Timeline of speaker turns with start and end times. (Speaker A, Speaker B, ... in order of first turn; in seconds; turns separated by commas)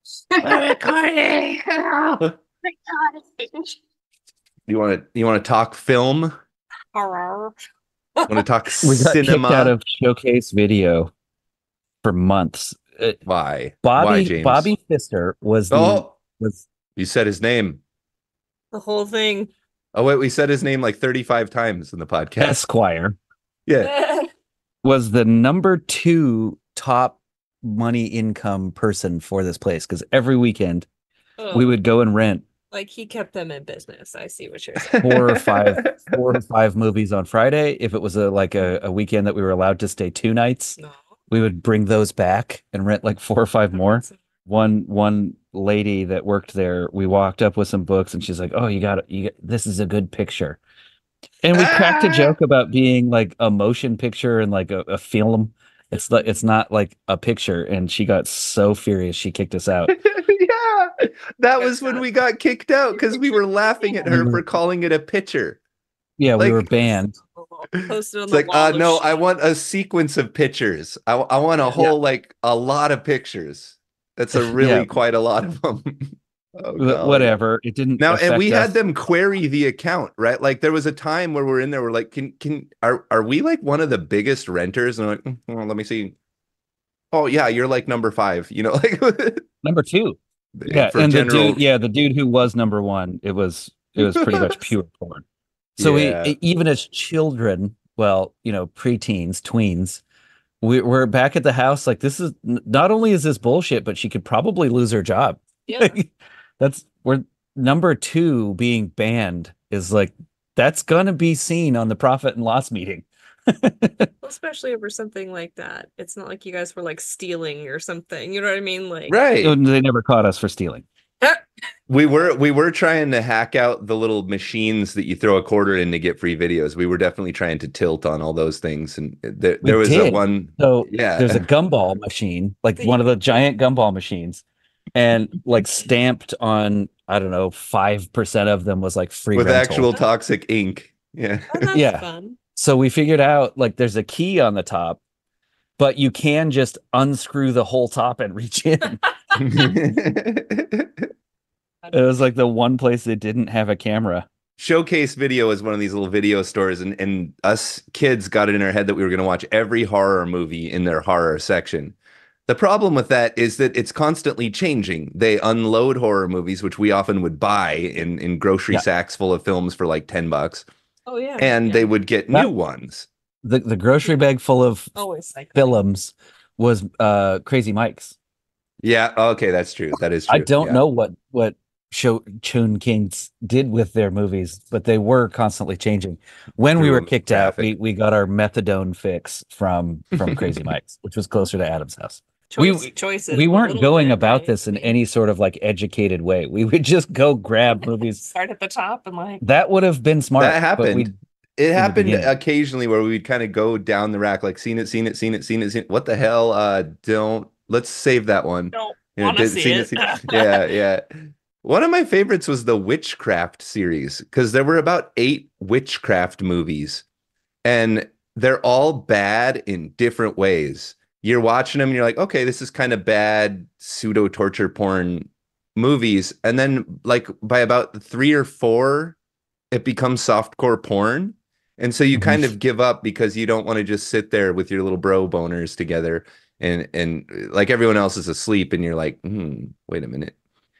Speaker A: 0.3-0.9, Speaker B: 0.4-2.3, Speaker A: 2.6-3.8, Speaker B: 4.7-6.3, Speaker A: 6.9-7.5, Speaker A: 8.2-8.4, Speaker B: 8.3-9.7, Speaker C: 8.8-11.1, Speaker C: 12.0-13.2, Speaker B: 13.2-14.7, Speaker C: 13.8-16.7, Speaker B: 15.7-16.1, Speaker B: 16.9-17.8, Speaker A: 18.7-19.5, Speaker B: 19.9-22.6, Speaker C: 22.4-23.2, Speaker B: 23.6-23.9, Speaker A: 23.8-24.3, Speaker C: 24.8-30.9, Speaker A: 31.4-31.7, Speaker C: 31.5-32.4, Speaker A: 32.7-35.2, Speaker B: 34.9-36.2, Speaker C: 35.0-40.8, Speaker C: 41.3-50.6, Speaker A: 43.7-44.1, Speaker C: 51.4-59.9, Speaker B: 51.5-52.3, Speaker A: 55.9-56.3, Speaker B: 59.9-65.6, Speaker A: 61.6-62.0, Speaker A: 62.9-64.2, Speaker C: 64.1-64.4, Speaker C: 66.2-67.1, Speaker B: 66.4-66.7, Speaker A: 67.3-69.2, Speaker B: 67.8-77.4, Speaker C: 74.3-74.9, Speaker C: 76.8-78.7, Speaker B: 78.0-86.1, Speaker B: 87.1-89.4, Speaker C: 89.6-95.2, Speaker B: 90.5-91.6, Speaker B: 94.0-94.4, Speaker C: 95.8-100.0, Speaker B: 95.8-96.3, Speaker C: 100.6-106.1, Speaker A: 105.7-106.0, Speaker C: 106.6-114.1, Speaker A: 114.2-119.2, Speaker B: 119.1-119.6, Speaker C: 119.4-120.8, Speaker B: 121.9-131.4, Speaker C: 129.6-134.4, Speaker A: 132.8-133.2, Speaker C: 134.9-139.9, Speaker B: 139.3-141.7, Speaker A: 141.5-142.4, Speaker C: 141.7-145.0, Speaker C: 145.8-149.0, Speaker B: 149.4-151.1, Speaker C: 151.9-154.3, Speaker B: 154.6-161.9, Speaker B: 162.5-170.7, Speaker A: 171.1-171.9, Speaker B: 171.4-173.1, Speaker C: 173.4-174.9, Speaker A: 174.9-175.8, Speaker C: 175.5-178.1, Speaker B: 178.8-180.8, Speaker C: 180.3-198.2, Speaker B: 186.8-187.7, Speaker A: 192.5-194.9, Speaker A: 198.2-199.4, Speaker C: 199.4-201.1, Speaker B: 200.4-211.0, Speaker C: 201.8-202.3, Speaker A: 208.7-210.6, Speaker B: 211.6-217.0, Speaker B: 217.6-229.2, Speaker B: 229.7-240.3, Speaker C: 232.1-232.4